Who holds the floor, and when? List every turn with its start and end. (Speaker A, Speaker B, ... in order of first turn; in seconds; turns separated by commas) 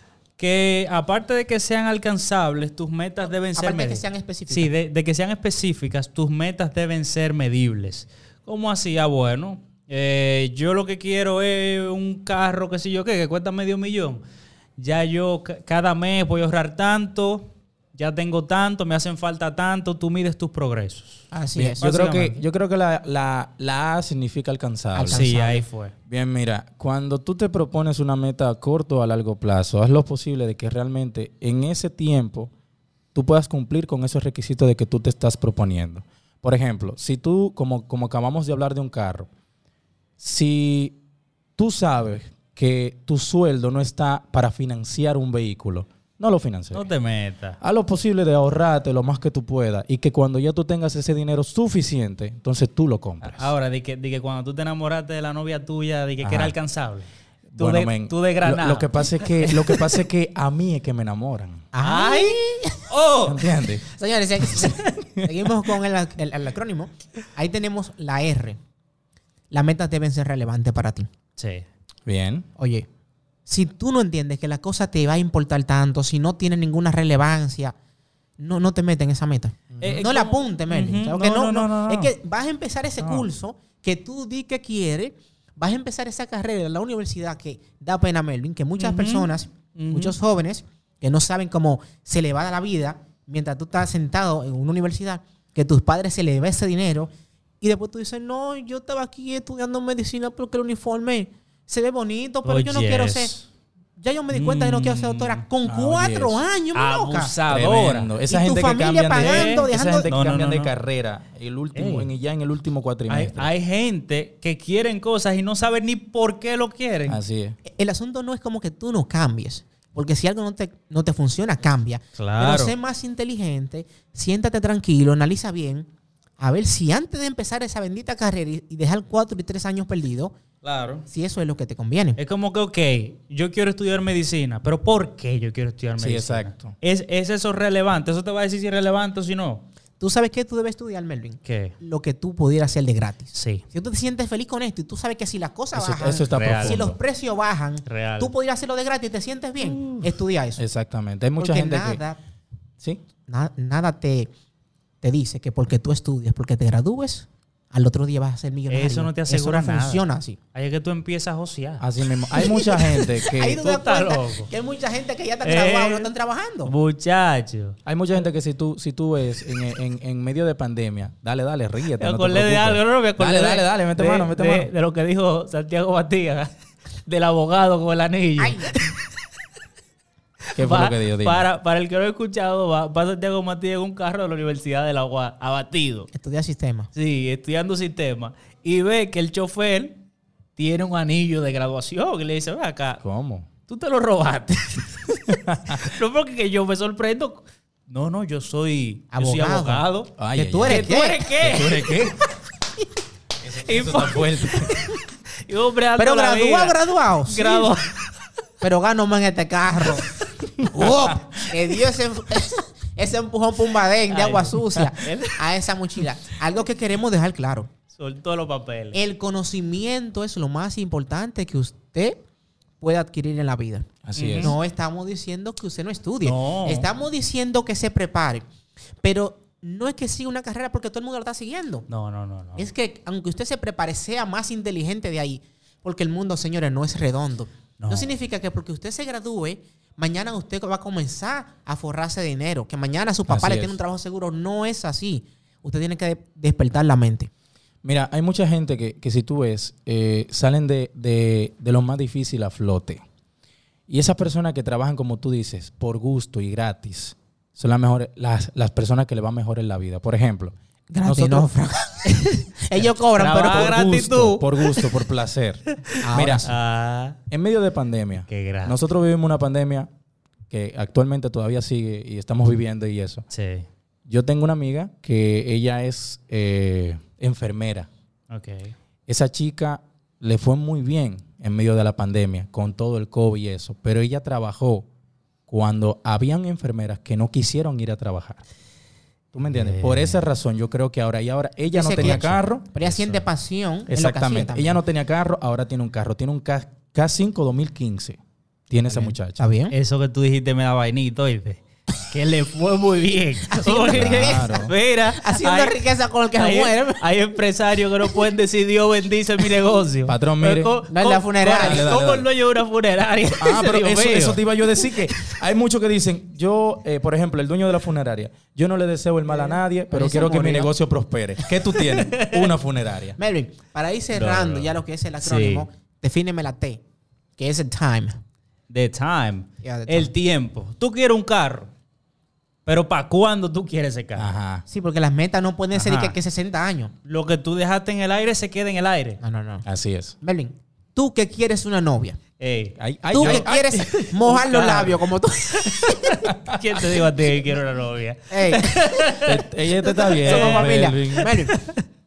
Speaker A: 0.4-14.2, Speaker B: 3.4-4.7, Speaker A: 14.8-21.2, Speaker B: 21.3-21.8, Speaker C: 21.6-25.3, Speaker A: 21.8-22.4, Speaker B: 24.9-25.6, Speaker A: 25.1-25.9, Speaker C: 26.1-32.5, Speaker C: 33.1-39.3, Speaker C: 40.2-41.0, Speaker C: 41.6-46.9, Speaker A: 46.7-47.6, Speaker C: 47.6-53.5, Speaker A: 53.2-57.1, Speaker C: 56.2-56.5, Speaker C: 57.5-61.7, Speaker A: 57.6-59.9, Speaker B: 61.7-62.8, Speaker A: 61.8-63.5, Speaker C: 63.3-63.8, Speaker B: 64.0-68.6, Speaker B: 69.5-71.1, Speaker A: 71.4-71.7, Speaker C: 72.1-72.5, Speaker B: 72.6-72.9, Speaker B: 73.5-77.7, Speaker B: 78.4-103.3, Speaker C: 79.7-80.0, Speaker A: 79.8-82.1, Speaker A: 88.8-90.2, Speaker A: 102.4-103.5, Speaker B: 104.0-107.3, Speaker A: 104.3-105.4, Speaker C: 105.6-106.4, Speaker A: 106.7-108.1, Speaker C: 107.5-113.5, Speaker B: 108.3-110.1, Speaker A: 109.2-110.7, Speaker A: 111.8-112.1, Speaker A: 113.1-117.2, Speaker C: 117.1-117.6, Speaker B: 117.7-125.9, Speaker A: 122.2-122.7, Speaker B: 126.4-130.3, Speaker A: 130.6-131.1, Speaker B: 131.1-132.2, Speaker A: 132.2-139.6, Speaker C: 136.0-136.8, Speaker B: 140.0-150.6, Speaker A: 141.4-141.7, Speaker A: 143.3-143.6, Speaker C: 145.7-147.0, Speaker A: 146.3-146.8, Speaker A: 147.9-148.3, Speaker A: 149.6-150.1, Speaker C: 150.6-152.0, Speaker B: 151.4-152.2, Speaker B: 153.3-154.3, Speaker B: 155.0-160.4, Speaker A: 158.7-161.8, Speaker C: 161.8-163.6, Speaker B: 162.4-166.7, Speaker A: 163.5-164.5, Speaker A: 165.4-166.1, Speaker A: 166.7-167.8, Speaker C: 167.9-174.7, Speaker A: 172.0-176.5, Speaker A: 177.1-179.0, Speaker B: 178.4-178.9, Speaker A: 180.5-186.1, Speaker C: 180.6-181.5, Speaker B: 186.1-186.9, Speaker A: 186.9-190.0, Speaker A: 190.6-193.0, Speaker C: 193.0-193.5, Speaker A: 193.7-200.1, Speaker C: 195.5-195.8, Speaker B: 199.1-199.8, Speaker C: 200.2-200.9, Speaker B: 200.3-201.4, Speaker A: 200.6-201.9, Speaker C: 201.4-202.2, Speaker C: 203.4-204.7, Speaker A: 203.5-207.9, Speaker B: 206.0-207.8, Speaker B: 208.6-210.0, Speaker C: 210.6-211.5, Speaker B: 210.7-217.7, Speaker A: 214.1-215.4, Speaker A: 217.9-219.0, Speaker B: 218.9-222.2, Speaker B: 222.8-228.4, Speaker C: 224.0-224.6, Speaker A: 224.2-224.5, Speaker A: 226.2-226.9, Speaker B: 229.0-231.9, Speaker A: 231.9-232.7, Speaker B: 232.6-247.3, Speaker A: 237.8-238.1, Speaker C: 243.3-243.8, Speaker C: 247.8-253.0, Speaker C: 253.9-261.5, Speaker B: 260.9-263.8, Speaker A: 263.1-264.9, Speaker C: 263.5-266.5, Speaker B: 266.0-266.6, Speaker A: 266.4-267.2, Speaker C: 267.3-269.9, Speaker A: 268.3-268.8, Speaker C: 270.5-273.2, Speaker A: 273.3-273.7, Speaker C: 274.1-277.9, Speaker A: 278.3-278.8, Speaker C: 279.1-284.9, Speaker C: 285.5-288.4, Speaker C: 289.3-292.8, Speaker A: 289.4-290.2, Speaker B: 291.7-294.8, Speaker C: 293.9-299.4, Speaker B: 298.9-299.7, Speaker A: 299.7-305.8, Speaker B: 303.5-307.0, Speaker C: 303.9-304.7, Speaker A: 306.3-314.4, Speaker C: 310.1-310.8, Speaker B: 310.9-312.0, Speaker C: 311.6-312.3, Speaker C: 313.3-323.2, Speaker B: 319.3-320.7, Speaker A: 321.8-322.4, Speaker B: 323.2-326.8, Speaker A: 324.1-325.7, Speaker B: 327.4-328.2, Speaker A: 328.7-331.7, Speaker B: 329.6-330.1, Speaker A: 332.7-334.3, Speaker C: 334.2-334.6, Speaker B: 334.7-336.9, Speaker A: 335.7-336.1, Speaker A: 337.1-339.2, Speaker B: 339.2-339.6, Speaker C: 339.6-340.2, Speaker B: 340.2-342.2, Speaker A: 342.4-345.0, Speaker C: 342.8-343.9, Speaker B: 343.1-346.2, Speaker A: 345.7-349.4, Speaker B: 348.3-348.8, Speaker C: 349.2-351.3, Speaker B: 350.1-351.6, Speaker A: 350.1-351.8